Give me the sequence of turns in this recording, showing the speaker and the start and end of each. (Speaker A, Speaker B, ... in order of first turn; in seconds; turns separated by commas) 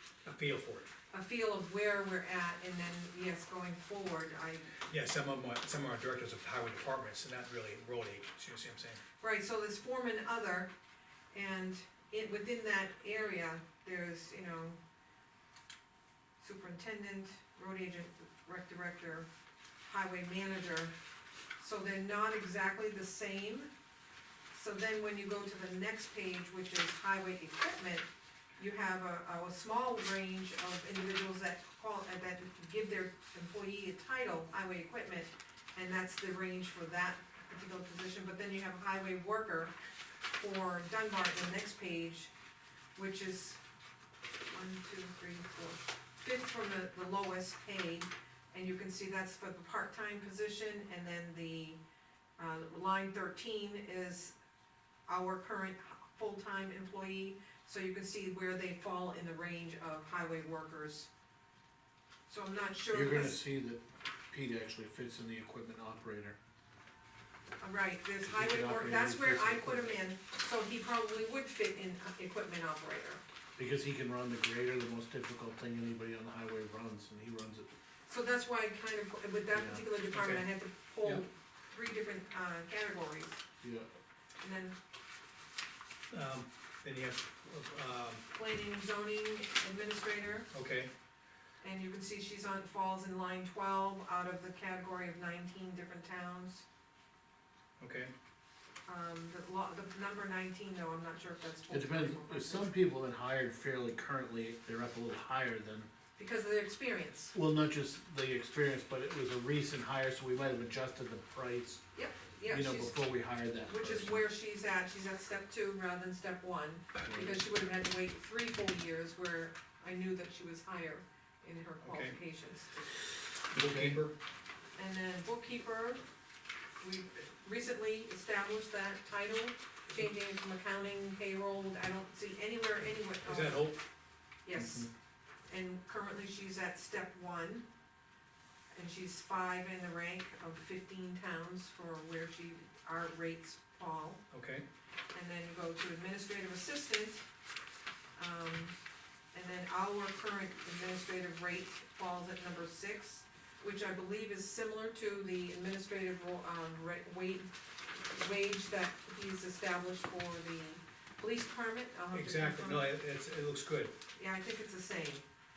Speaker A: 0.2-0.9, Speaker B: 1.1-4.7, Speaker A: 4.9-9.0, Speaker B: 9.2-10.7, Speaker B: 11.3-14.8, Speaker B: 16.4-19.3, Speaker B: 19.8-20.9, Speaker B: 21.6-23.7, Speaker B: 24.5-39.7, Speaker B: 40.3-42.3, Speaker B: 43.0-43.6, Speaker B: 44.5-51.8, Speaker B: 52.4-54.3, Speaker B: 55.1-61.1, Speaker B: 62.3-63.4, Speaker C: 62.9-66.4, Speaker B: 67.6-73.2, Speaker C: 68.2-70.0, Speaker C: 73.6-77.7, Speaker B: 78.1-83.4, Speaker C: 79.5-79.8, Speaker A: 80.1-80.5, Speaker C: 83.6-83.9, Speaker B: 84.4-84.8, Speaker A: 86.1-88.2, Speaker B: 88.3-90.5, Speaker A: 90.5-90.9, Speaker B: 91.6-96.7, Speaker A: 97.8-98.1, Speaker B: 98.9-102.7, Speaker C: 101.7-105.9, Speaker B: 106.2-107.3, Speaker C: 107.3-111.8, Speaker B: 111.9-113.2, Speaker C: 112.5-114.3, Speaker B: 113.7-123.0, Speaker C: 117.0-117.4, Speaker A: 121.8-122.2, Speaker A: 123.5-124.2, Speaker C: 123.5-124.0, Speaker B: 124.8-126.0, Speaker B: 126.8-133.7, Speaker A: 133.2-133.8, Speaker B: 134.4-134.9, Speaker C: 134.6-134.9, Speaker B: 135.5-137.7, Speaker B: 138.7-144.2, Speaker A: 144.3-144.7, Speaker B: 145.1-147.2, Speaker B: 148.2-148.7, Speaker B: 149.3-157.5, Speaker B: 158.0-162.9, Speaker A: 162.1-163.9, Speaker B: 164.2-165.2